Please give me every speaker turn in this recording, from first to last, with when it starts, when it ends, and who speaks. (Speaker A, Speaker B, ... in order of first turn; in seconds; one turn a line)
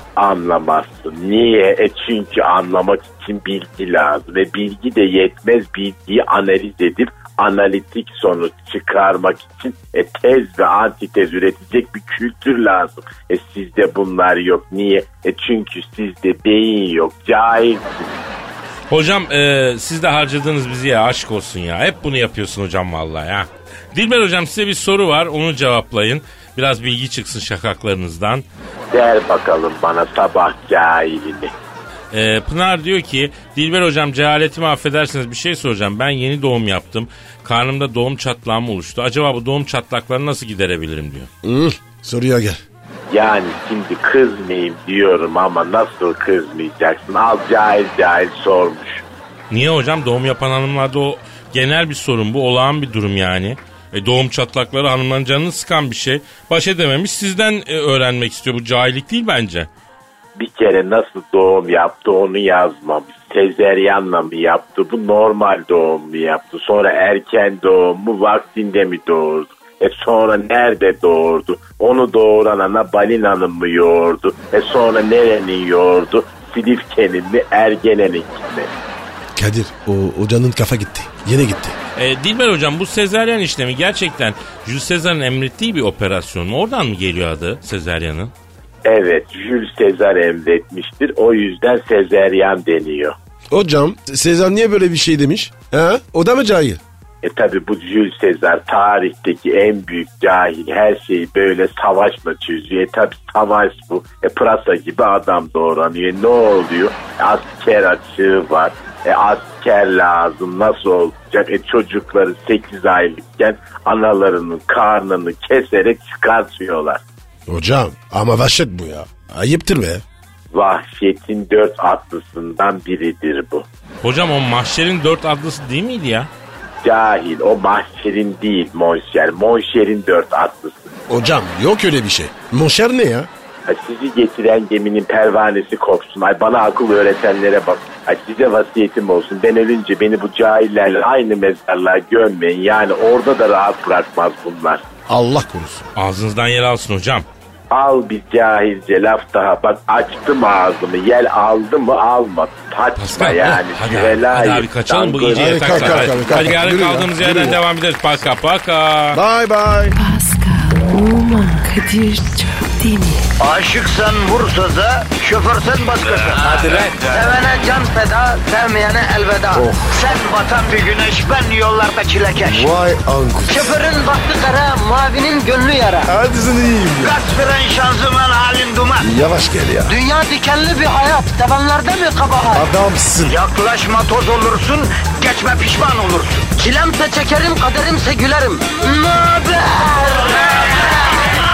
Speaker A: 0.2-18.2
Speaker B: 18.9-28.4
Speaker A: 28.9-31.5
Speaker B: 32.1-41.3
Speaker C: 41.4-42.6
Speaker A: 43.1-49.1
Speaker B: 49.5-59.7
Speaker A: 60.4-78.7
Speaker C: 79.4-81.8
Speaker B: 82.0-88.3
Speaker A: 88.8-93.2
Speaker C: 93.5-96.8
Speaker A: 97.2-117.0
Speaker C: 117.5-120.0
Speaker A: 120.5-123.7
Speaker B: 124.0-126.3
Speaker A: 126.8-130.9
Speaker C: 131.1-133.3
Speaker A: 133.7-144.9
Speaker C: 145.1-145.9
Speaker B: 146.0-147.3
Speaker A: 147.7-156.3
Speaker B: 153.0-159.2
Speaker C: 155.4-157.6
Speaker C: 159.1-160.0
Speaker D: 159.9-163.3
Speaker E: 163.4-172.7
Speaker A: 166.7-166.9
Speaker C: 169.5-169.9
Speaker C: 172.4-173.8
Speaker E: 173.5-176.1
Speaker C: 176.1-177.2
Speaker E: 177.0-179.1
Speaker C: 179.0-180.0
Speaker E: 179.9-182.7
Speaker C: 182.5-183.4
Speaker E: 183.3-190.9